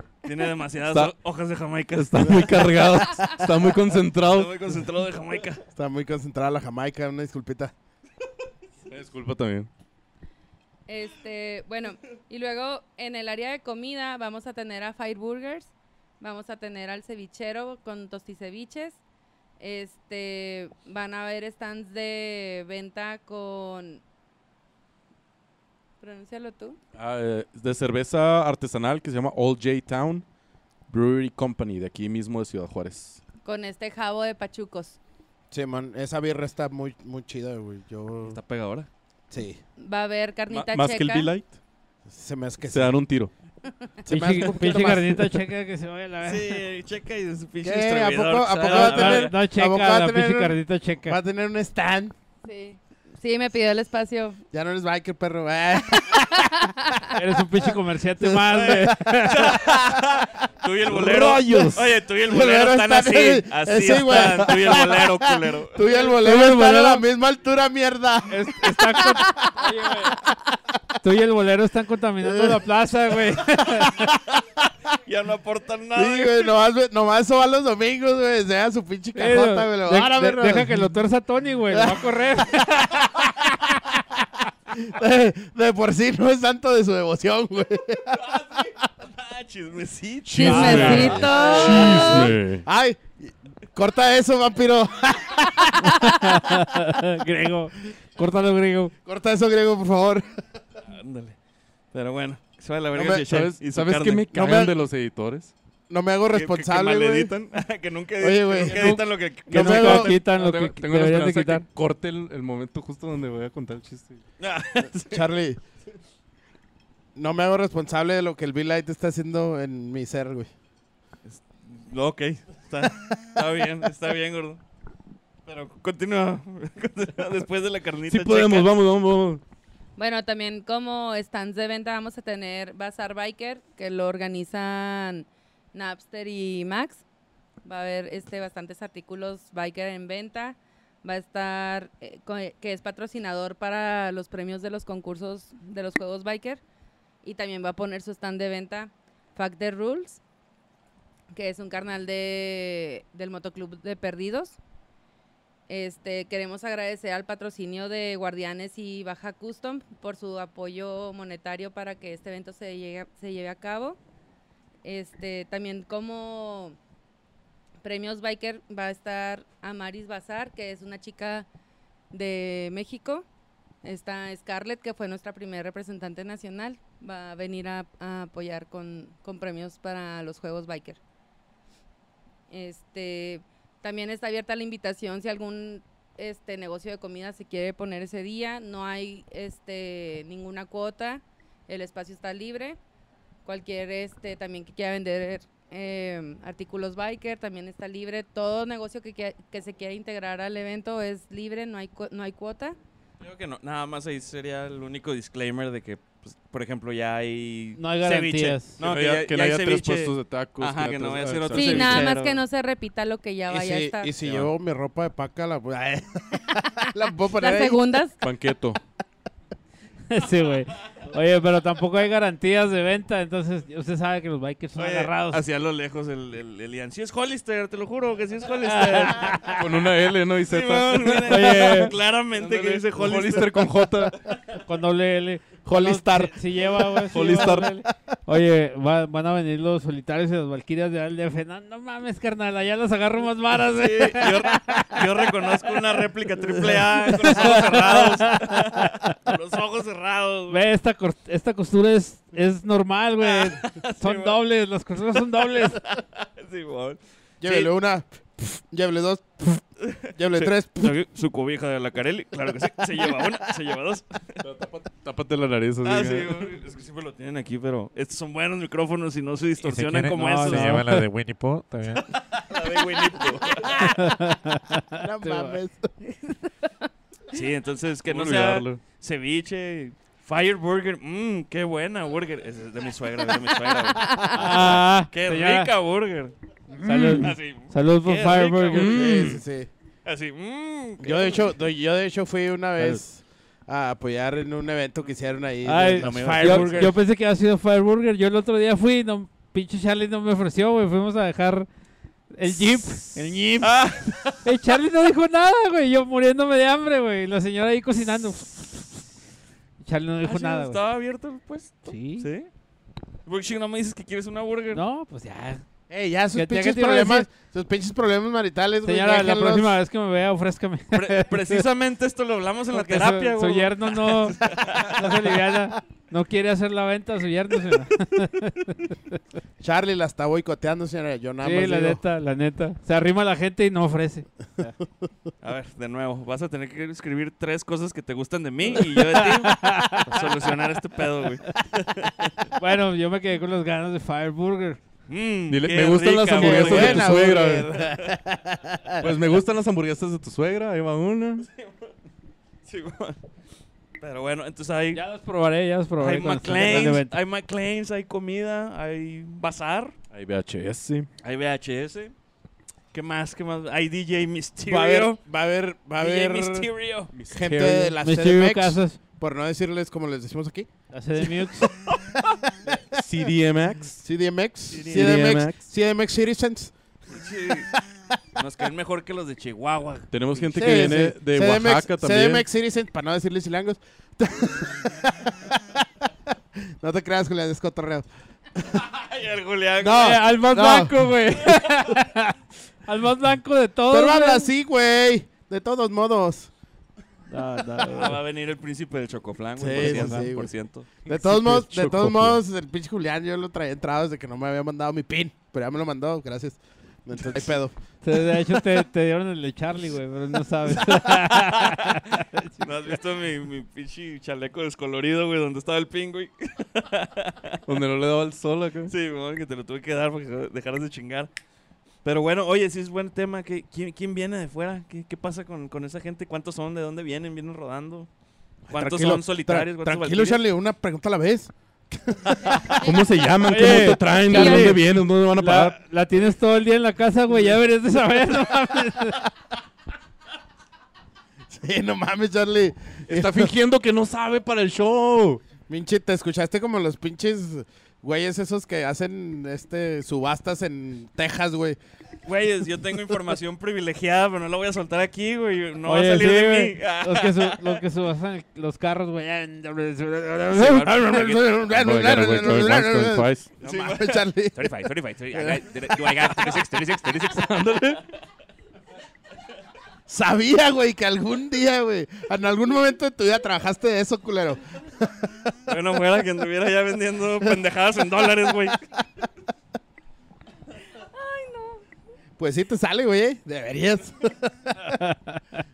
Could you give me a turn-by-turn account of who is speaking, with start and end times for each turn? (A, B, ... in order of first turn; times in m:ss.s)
0:00.2-0:02.8 A
0:00.9-0:01.1 B
0:01.9-0:04.6 B
0:04.2-0:05.6 A
0:05.8-0:07.7 C
0:08.9-0:09.7 B
0:10.9-0:19.0 D
0:19.6-0:24.0 D
0:26.0-0:26.8 D
0:27.0-0:30.2 B
0:30.9-0:33.2 B
0:33.4-0:35.0 D
0:35.5-0:38.4 C
0:38.2-0:38.9 A
0:39.3-0:39.6 C
0:39.8-0:41.3 D
0:40.5-0:41.6 B
0:42.1-0:43.0 C
0:42.7-0:43.3 B
0:44.0-0:45.3 C
0:44.1-0:46.6 E
0:46.2-0:49.3 A
0:47.6-0:52.1 C
0:48.7-0:51.2 E
0:52.4-0:54.4 D
0:54.5-0:56.7 C
0:56.4-0:57.0 D
0:57.1-0:59.5 E
0:58.2-1:00.0 C
0:58.7-1:05.8 A
1:00.9-1:01.8 B
1:00.9-1:01.7 C
1:02.3-1:09.7 C
1:05.8-1:07.0 E
1:08.3-1:10.2 E
1:11.0-1:14.1 E
1:12.2-1:12.6 C
1:13.8-1:14.2 C
1:15.1-1:16.5 A
1:16.0-1:20.8 C
1:19.2-1:23.0 E
1:21.7-1:28.3 C
1:28.3-1:31.7 A
1:30.3-1:32.6 B
1:30.4-1:32.3 D
1:30.5-1:31.1 E
1:30.8-1:36.0 C
1:35.8-1:38.9 E
1:39.0-1:40.3 C
1:40.9-1:41.4 A
1:41.9-1:44.3 A
1:43.0-1:43.2 C
1:43.2-1:45.5 B
1:44.3-1:44.7 C
1:45.9-1:47.3 C
1:46.3-1:50.1 A
1:48.2-1:50.2 C
1:48.7-1:51.6 E
1:49.9-1:54.2 B
1:54.4-1:55.3 A
1:55.1-1:55.6 C
1:57.2-2:00.5 C
2:01.3-2:04.6 A
2:05.5-2:08.7 A
2:08.1-2:09.4 B
2:10.0-2:17.0 D
2:17.6-2:26.6 D
2:27.2-2:30.2 D
2:31.3-2:34.6 D
2:35.7-2:44.0 D
2:44.8-2:46.8 D
2:47.8-2:51.5 D
2:52.1-2:53.3 D
2:53.8-3:01.0 D
3:02.5-3:12.8 D
3:13.4-3:22.8 D
3:23.2-3:32.4 A
3:27.8-3:28.8 E
3:28.8-3:32.1 B
3:31.5-3:34.2 D
3:33.5-3:37.8 C
3:34.2-3:34.5 B
3:37.3-3:38.2 D
3:38.2-3:38.8 B
3:40.1-3:45.4 E
3:44.8-3:49.6 A
3:48.7-3:49.6 E
3:49.6-3:54.2 B
3:50.5-3:53.9 A
3:51.3-3:51.9 E
3:54.6-4:05.0 E
3:55.7-3:56.3 C
3:57.1-3:57.7 B
4:03.7-4:10.6 A
4:07.1-4:09.1 E
4:10.5-4:15.8 E
4:13.2-4:14.4 A
4:15.5-4:17.7 A
4:17.4-4:21.0 C
4:19.9-4:24.4 A
4:24.4-4:26.5 B
4:25.8-4:31.0 A
4:29.6-4:32.0 F
4:30.2-4:31.0 E
4:32.1-4:33.9 A
4:33.8-4:35.6 E
4:34.9-4:35.9 C
4:37.3-4:46.4 A
4:38.1-4:38.8 B
4:43.9-4:44.4 D
4:44.3-4:45.7 E
4:46.8-4:49.0 E
4:46.8-4:47.3 B
4:47.1-4:49.4 A
4:48.8-4:49.4 B
4:48.8-4:49.7 C
4:50.0-4:51.5 A
4:51.0-4:56.9 C
4:55.6-5:01.7 E
4:56.0-4:56.9 A
5:02.3-5:03.8 E
5:03.6-5:04.4 A
5:04.4-5:09.1 E
5:09.8-5:10.8 E
5:10.2-5:12.5 A
5:11.9-5:12.3 E
5:13.3-5:14.8 A
5:14.7-5:15.6 E
5:15.9-5:19.8 C
5:16.3-5:17.3 E
5:18.8-5:21.6 E
5:20.9-5:25.1 A
5:22.7-5:28.9 E
5:29.6-5:32.0 C
5:31.4-5:34.7 E
5:35.4-5:42.4 A
5:39.0-5:40.2 E
5:42.6-5:44.8 E
5:45.1-5:48.1 A
5:45.5-5:47.7 B
5:46.4-5:49.1 C
5:49.0-5:51.5 B
5:52.7-5:53.2 A
5:54.0-5:55.0 A
5:54.9-5:57.1 E
5:56.0-6:00.0 A
6:00.1-6:01.1 B
6:01.2-6:02.1 A
6:02.9-6:05.2 A
6:04.7-6:06.7 C
6:06.0-6:07.1 A
6:07.1-6:08.0 B
6:07.3-6:10.7 C
6:08.0-6:09.0 E
6:10.9-6:11.7 E
6:11.9-6:12.2 A
6:13.0-6:14.0 B
6:14.0-6:16.7 C
6:14.7-6:15.3 A
6:14.8-6:15.6 B
6:17.1-6:17.7 A
6:18.4-6:20.8 A
6:20.1-6:22.4 B
6:20.6-6:25.8 C
6:26.8-6:28.1 C
6:28.8-6:30.2 A
6:29.8-6:30.9 C
6:29.9-6:32.3 E
6:32.9-6:34.5 E
6:33.9-6:36.5 C
6:37.3-6:38.2 E
6:37.9-6:40.9 A
6:39.6-6:40.5 C
6:39.8-6:40.3 E
6:41.1-6:42.4 B
6:41.1-6:47.7 C
6:48.0-6:52.7 E
6:51.3-6:52.0 A
6:52.6-6:57.6 A
6:57.7-6:58.9 B
6:58.9-7:01.3 A
7:02.0-7:08.1 A
7:08.7-7:12.7 C
7:08.7-7:10.4 A
7:12.7-7:15.8 B
7:13.4-7:19.3 E
7:14.3-7:14.8 D
7:21.5-7:23.5 C
7:23.1-7:25.4 B
7:25.7-7:31.8 C
7:32.2-7:37.8 A
7:35.9-7:40.9 E
7:40.5-7:41.6 A
7:40.7-7:44.7 C
7:41.7-7:43.5 B
7:43.6-7:48.0 A
7:45.3-7:46.2 C
7:47.5-7:48.0 B
7:50.1-7:55.5 C
7:55.7-7:58.8 A
7:58.5-7:58.8 C
8:01.1-8:01.8 D
8:02.4-8:04.8 C
8:04.9-8:05.4 E